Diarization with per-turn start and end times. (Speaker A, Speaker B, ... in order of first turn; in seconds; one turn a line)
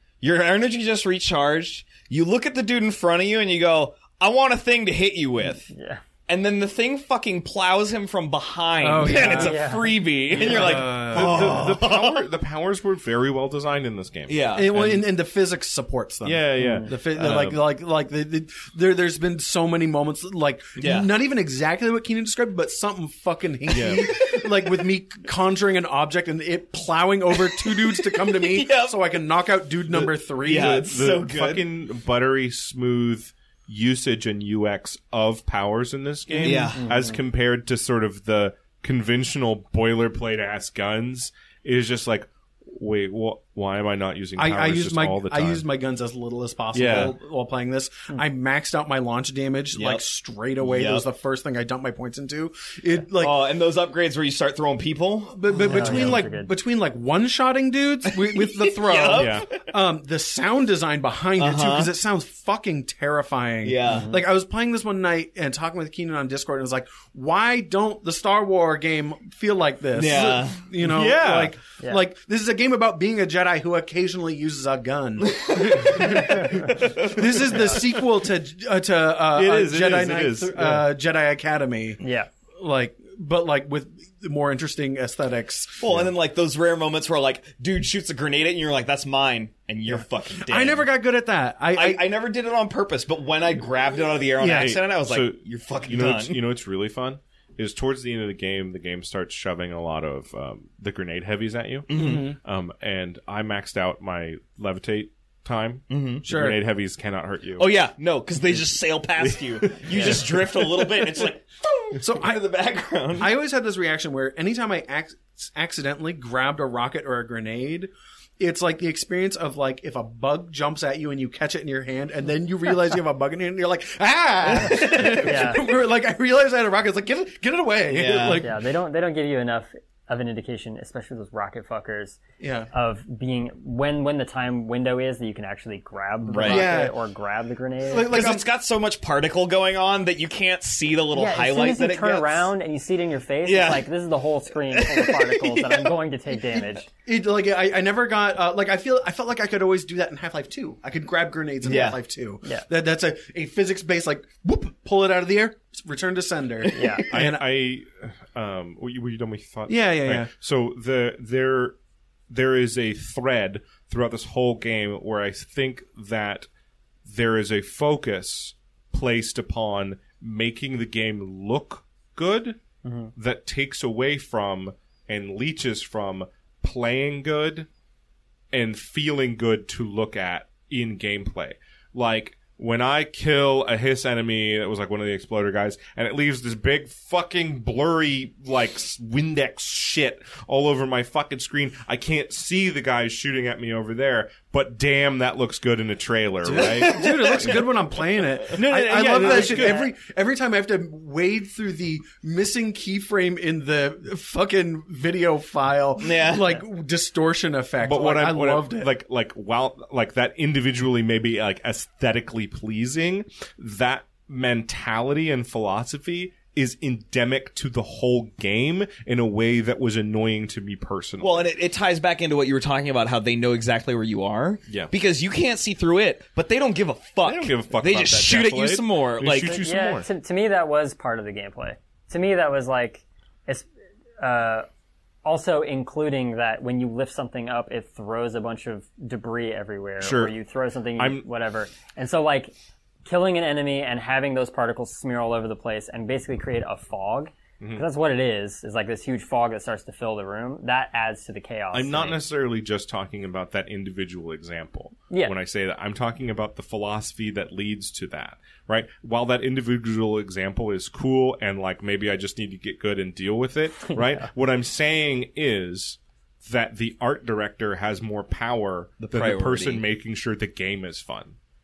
Speaker A: 0.2-5.7
Speaker B: 5.7-6.0
Speaker A: 6.3-12.3
Speaker C: 8.8-9.7
Speaker B: 9.1-10.0
Speaker C: 10.3-11.7
Speaker D: 10.5-14.4
Speaker A: 14.3-15.0
Speaker C: 14.5-31.0
Speaker D: 16.2-17.6
Speaker B: 16.6-16.9
Speaker A: 20.8-21.1
Speaker D: 23.7-24.2
Speaker A: 24.2-24.6
Speaker A: 27.4-29.2
Speaker A: 29.9-31.7
Speaker D: 30.6-45.6
Speaker B: 36.3-37.2
Speaker A: 36.4-37.0
Speaker C: 44.4-53.4
Speaker D: 46.7-47.1
Speaker A: 49.7-50.0
Speaker A: 50.6-51.0
Speaker A: 53.2-56.2
Speaker C: 55.3-82.0
Speaker B: 55.6-56.5
Speaker A: 58.1-59.6
Speaker D: 59.1-59.5
Speaker A: 61.4-61.9
Speaker A: 63.6-64.1
Speaker B: 63.8-64.2
Speaker A: 69.9-71.0
Speaker D: 70.8-71.5
Speaker A: 75.2-77.8
Speaker D: 79.3-80.9
Speaker B: 82.0-82.3
Speaker C: 82.5-86.0
Speaker A: 85.8-90.9
Speaker C: 89.9-92.1
Speaker A: 91.7-96.4
Speaker C: 94.4-94.8
Speaker D: 94.4-107.7
Speaker A: 101.9-102.3
Speaker C: 101.9-102.4
Speaker A: 105.9-106.3
Speaker C: 106.2-106.6
Speaker A: 107.6-113.3
Speaker D: 109.4-111.0
Speaker C: 112.0-112.4
Speaker C: 113.2-128.6
Speaker A: 124.4-125.5
Speaker B: 124.6-125.6
Speaker A: 127.9-128.4
Speaker B: 128.4-132.2
Speaker C: 132.4-132.7
Speaker B: 132.7-138.1
Speaker A: 136.2-136.7
Speaker C: 136.4-136.9
Speaker C: 137.8-138.4
Speaker A: 138.1-142.5
Speaker B: 141.1-146.9
Speaker A: 143.4-143.9
Speaker A: 144.7-146.0
Speaker C: 147.0-157.4
Speaker A: 151.6-152.0
Speaker B: 156.7-157.1
Speaker D: 157.1-161.8
Speaker C: 159.7-160.3
Speaker D: 162.3-166.5
Speaker D: 167.1-172.6
Speaker B: 172.8-173.1
Speaker D: 173.2-177.7
Speaker D: 178.5-197.6
Speaker C: 196.4-208.9
Speaker A: 196.5-197.9
Speaker A: 198.4-199.0
Speaker D: 198.5-199.8
Speaker B: 199.2-199.9
Speaker A: 206.0-206.6
Speaker D: 207.8-221.5
Speaker A: 221.2-229.6
Speaker D: 227.2-230.1
Speaker B: 229.5-233.7
Speaker B: 234.2-234.7
Speaker B: 235.2-242.5
Speaker D: 240.0-240.3
Speaker D: 241.0-241.2
Speaker B: 243.1-252.2
Speaker D: 251.7-271.4
Speaker A: 269.0-269.8